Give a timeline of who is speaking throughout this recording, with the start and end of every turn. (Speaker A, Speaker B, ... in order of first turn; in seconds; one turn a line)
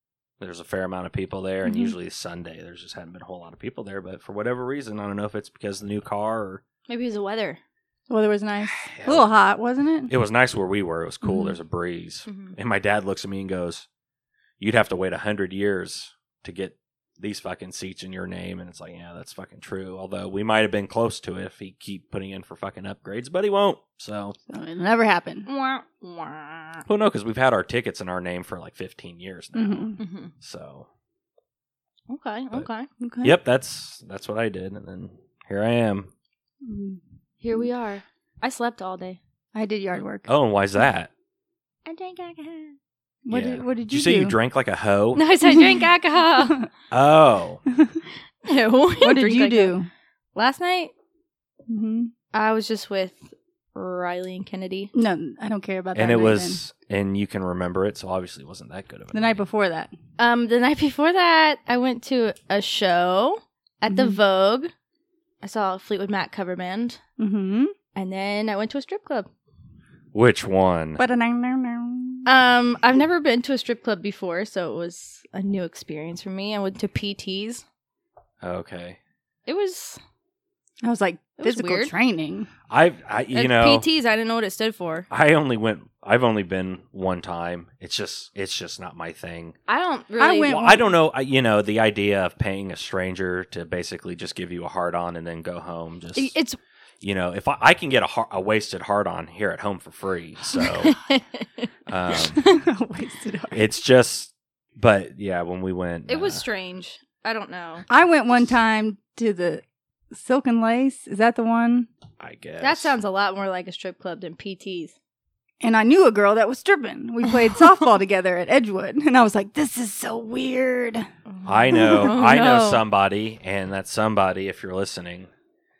Speaker A: 0.4-6.6
Speaker B: 1.6-1.9
Speaker C: 6.9-7.6
Speaker B: 8.1-10.1
Speaker A: 8.8-9.3
Speaker A: 10.1-13.8
Speaker B: 11.2-11.6
Speaker C: 12.3-12.6
Speaker A: 14.6-24.4
Speaker B: 24.5-25.5
Speaker C: 25.4-26.8
Speaker A: 26.9-30.9
Speaker B: 29.5-30.0
Speaker C: 30.0-30.3
Speaker C: 32.1-32.9
Speaker B: 33.0-33.4
Speaker A: 33.2-36.1
Speaker B: 36.6-37.0
Speaker C: 37.4-39.2
Speaker B: 39.5-40.3
Speaker A: 40.3-41.1
Speaker C: 41.9-42.8
Speaker B: 43.2-44.4
Speaker A: 43.3-45.2
Speaker C: 45.1-46.7
Speaker A: 46.9-47.6
Speaker C: 48.5-49.8
Speaker B: 49.0-49.9
Speaker C: 50.3-50.9
Speaker B: 51.7-52.1
Speaker C: 52.3-54.9
Speaker B: 54.9-56.6
Speaker A: 55.9-59.4
Speaker B: 59.1-59.9
Speaker C: 60.2-64.7
Speaker B: 63.9-64.2
Speaker C: 65.4-67.0
Speaker B: 67.2-67.7
Speaker C: 67.9-69.3
Speaker A: 70.1-71.0
Speaker B: 71.0-72.3
Speaker C: 72.2-77.6
Speaker A: 78.4-79.0
Speaker C: 79.5-80.0
Speaker B: 80.8-82.5
Speaker C: 81.4-81.9
Speaker A: 82.7-83.9
Speaker C: 83.3-85.1
Speaker A: 85.1-89.5
Speaker C: 89.7-90.8
Speaker B: 90.2-90.9
Speaker A: 90.5-96.3
Speaker C: 96.1-96.6
Speaker A: 97.0-101.0
Speaker C: 100.6-101.7
Speaker A: 101.9-102.4
Speaker B: 102.3-103.7
Speaker A: 103.5-106.4
Speaker C: 106.1-107.8
Speaker B: 107.9-111.9
Speaker A: 112.2-113.0
Speaker C: 112.6-114.9
Speaker B: 115.6-121.1
Speaker C: 121.3-122.8
Speaker A: 121.4-125.3